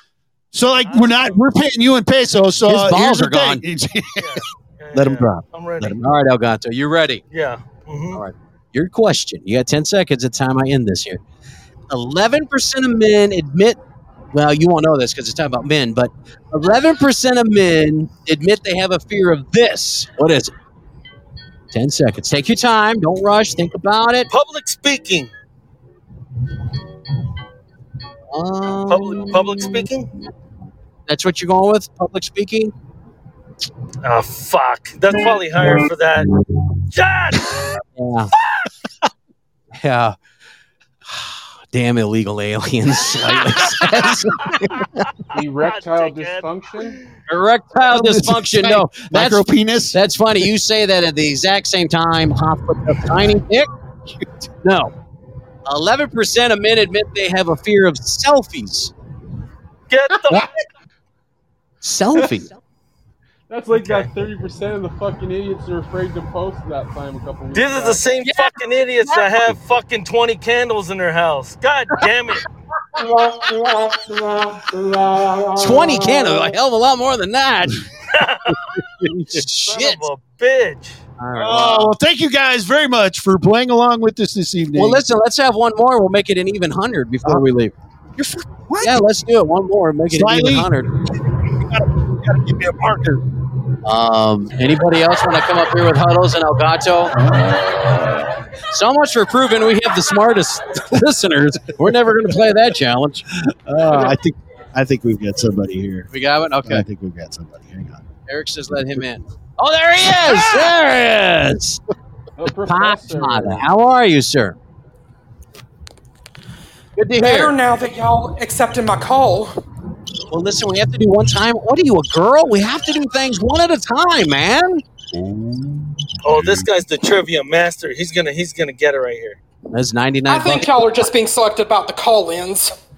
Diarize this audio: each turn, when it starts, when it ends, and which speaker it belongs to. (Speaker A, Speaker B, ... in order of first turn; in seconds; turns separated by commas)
Speaker A: 0.5-6.0, Speaker B: 0.8-1.4, Speaker C: 2.6-3.6, Speaker B: 4.2-6.0, Speaker C: 5.8-7.2, Speaker B: 7.3-8.2, Speaker C: 8.1-11.2, Speaker C: 11.9-13.8, Speaker C: 14.3-20.5, Speaker C: 21.7-24.3, Speaker B: 24.3-25.3, Speaker C: 28.3-29.8, Speaker B: 28.9-30.1, Speaker C: 31.1-32.7, Speaker B: 34.0-36.3, Speaker B: 36.9-37.8, Speaker C: 37.9-38.3, Speaker C: 39.8-40.1, Speaker C: 41.7-44.9, Speaker B: 44.8-46.5, Speaker D: 45.4-47.0, Speaker C: 47.3-53.7, Speaker A: 47.9-50.0, Speaker C: 54.6-54.9, Speaker C: 55.6-58.9, Speaker B: 59.9-60.5, Speaker C: 61.8-62.5, Speaker D: 63.5-68.0, Speaker B: 63.7-64.1, Speaker B: 67.5-72.4, Speaker C: 68.2-69.5, Speaker C: 75.5-77.8, Speaker B: 78.1-78.6, Speaker C: 79.0-80.1, Speaker B: 79.6-81.0, Speaker C: 81.2-82.0, Speaker A: 81.3-85.0, Speaker C: 84.7-87.7, Speaker A: 88.2-89.0, Speaker C: 88.8-90.9, Speaker A: 90.1-93.2, Speaker C: 93.8-97.2, Speaker A: 97.1-98.2, Speaker C: 98.7-103.3, Speaker A: 103.4-106.1, Speaker C: 106.1-106.8, Speaker A: 106.7-108.0, Speaker C: 108.3-111.8, Speaker A: 110.1-110.7, Speaker D: 112.4-113.7, Speaker C: 112.6-114.6, Speaker C: 117.0-117.5, Speaker E: 117.2-119.5, Speaker C: 120.3-124.8, Speaker A: 125.2-125.5, Speaker B: 126.2-129.4, Speaker C: 129.7-131.1, Speaker E: 130.3-132.7